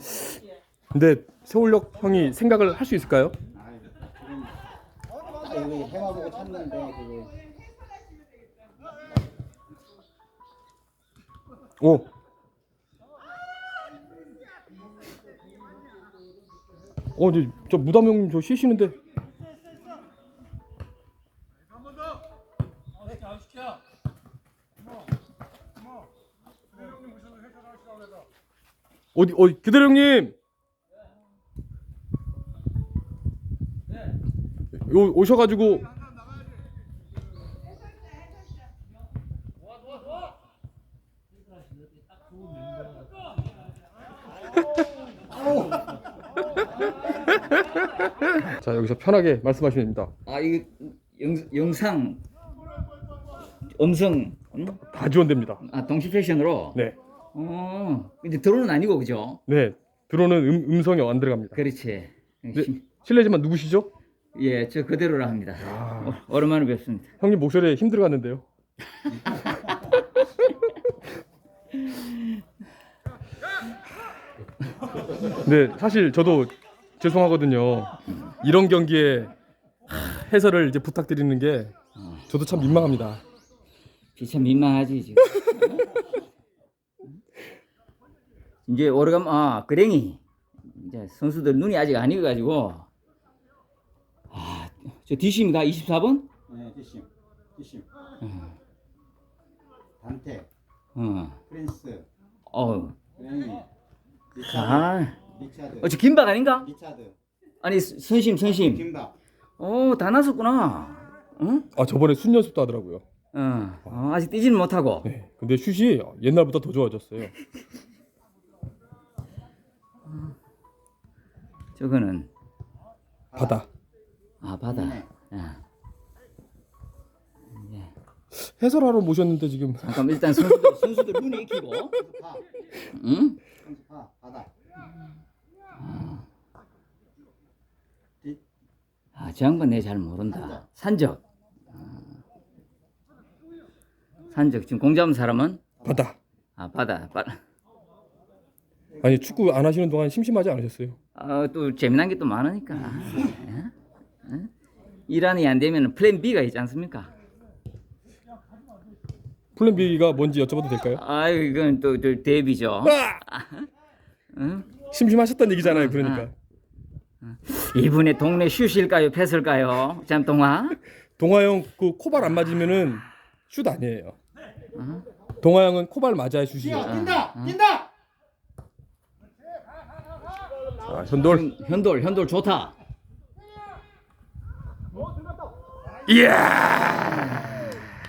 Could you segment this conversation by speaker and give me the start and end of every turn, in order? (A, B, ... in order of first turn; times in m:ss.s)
0:00.9-0:03.4 A
0:03.5-0:04.6 B
0:05.3-0:07.3 B
0:11.8-0:12.1 A
0:17.2-0:19.0 A
0:29.2-0:30.4 A
0:34.7-0:35.9 A
0:48.0-0:50.1 A
0:50.3-0:52.2 C
0:53.8-0:54.8 C
0:54.8-0:55.6 A
0:55.6-0:56.8 C
0:57.3-0:59.4 C
0:59.5-1:01.6 A
1:01.5-1:02.8 C
1:02.5-1:03.9 A
1:04.3-1:07.2 C
1:05.6-1:06.2 A
1:07.2-1:08.5 A
1:15.3-1:19.3 A
1:19.9-1:21.8 A
1:22.0-1:23.0 C
1:22.3-1:23.2 A
1:24.2-1:26.0 C
1:28.7-1:32.9 C
1:34.3-1:36.3 C
1:36.5-1:37.9 B
1:38.2-1:38.5 C
1:40.0-1:40.5 B
1:41.0-1:41.4 C
1:41.5-1:42.1 B
1:42.5-1:43.0 C
1:43.2-1:43.7 B
1:44.3-1:46.0 B
1:44.4-1:45.2 C
1:45.8-1:46.7 C
1:46.6-1:47.2 B
1:47.6-1:48.9 C
1:48.4-1:49.1 B
1:49.6-1:51.7 C
1:51.8-1:53.0 A
1:53.3-1:55.1 C
1:55.0-1:57.3 A
2:01.8-2:02.3 C
2:03.3-2:03.6 B
2:03.4-2:03.7 A
2:04.4-2:05.6 C
2:04.7-2:05.1 B
2:07.5-2:07.9 C
2:08.3-2:10.8 A
2:09.8-2:12.0 C
2:12.0-2:12.4 B
2:12.9-2:13.4 C
2:13.6-2:14.5 B
2:15.8-2:16.2 C
2:19.2-2:21.2 C
2:20.3-2:20.6 B
2:21.8-2:22.0 C
2:24.3-2:25.6 C
2:25.8-2:26.2 A
2:26.6-2:27.4 C
2:29.0-2:31.0 A
2:31.2-2:33.7 C
2:34.2-2:34.5 C
2:35.1-2:37.1 C
2:39.6-2:41.0 A
2:41.0-2:43.7 C
2:42.8-2:43.2 A
2:44.3-2:44.7 C
2:44.9-2:46.3 A
2:45.6-2:46.3 C
2:47.2-2:50.8 C
2:51.2-2:54.2 A
2:54.8-2:55.1 C
2:55.4-2:57.1 A
2:56.6-2:57.9 B
2:56.8-2:57.6 C
3:00.8-3:01.4 A
3:01.2-3:02.8 C
3:06.1-3:07.6 A